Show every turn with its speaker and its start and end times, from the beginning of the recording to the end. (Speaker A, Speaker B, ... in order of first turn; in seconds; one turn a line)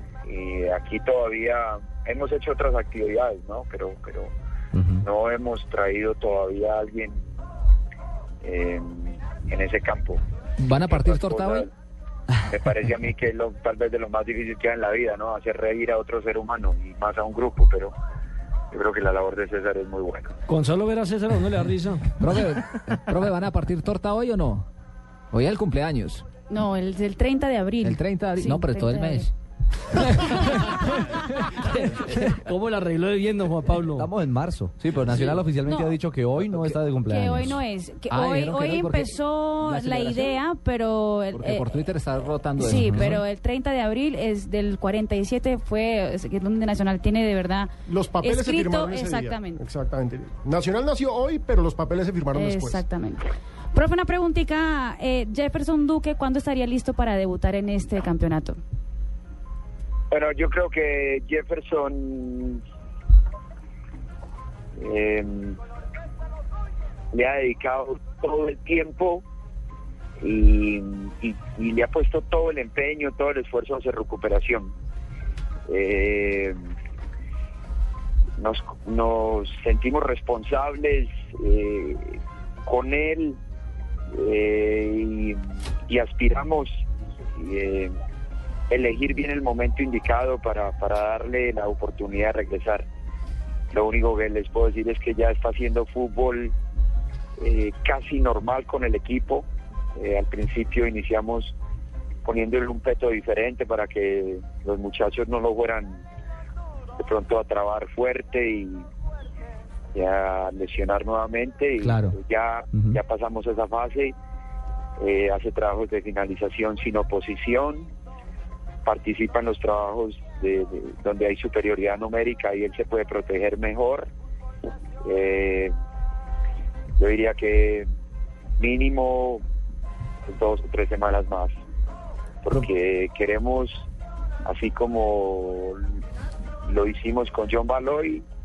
Speaker A: 0.2-4.3
Speaker B: 4.7-5.0
Speaker A: 5.0-7.3
Speaker A: 8.4-10.2
Speaker C: 10.6-11.7
Speaker A: 10.8-11.7
Speaker A: 12.5-17.9
Speaker A: 18.7-20.3
Speaker D: 20.5-22.1
Speaker C: 22.2-24.7
Speaker C: 25.3-26.2
Speaker E: 26.5-29.3
Speaker C: 27.8-29.3
Speaker D: 30.2-34.1
Speaker B: 33.9-37.6
Speaker D: 35.1-35.4
Speaker E: 35.6-36.0
Speaker E: 37.0-41.7
Speaker C: 38.1-39.2
Speaker D: 39.6-40.4
Speaker C: 41.3-43.2
Speaker E: 42.6-49.6
Speaker B: 42.7-43.1
Speaker F: 47.9-52.8
Speaker E: 52.3-58.6
Speaker A: 60.1-62.6
Speaker A: 64.8-65.6
Speaker A: 67.1-69.2
Speaker A: 70.2-74.7
Speaker A: 75.7-76.6
Speaker A: 78.4-83.4
Speaker A: 84.1-88.0
Speaker A: 88.7-92.9
Speaker A: 93.7-96.5
Speaker A: 97.4-101.6
Speaker A: 102.2-106.0
Speaker A: 107.0-108.9
Speaker A: 109.9-114.2
Speaker B: 111.8-112.2
Speaker B: 112.7-113.0
Speaker A: 115.0-117.9
Speaker A: 118.8-124.1
Speaker A: 125.0-125.8
Speaker A: 127.0-127.9
Speaker A: 128.6-129.4
Speaker A: 130.3-131.6
Speaker A: 132.4-133.9
Speaker A: 134.4-136.0
Speaker A: 136.7-138.2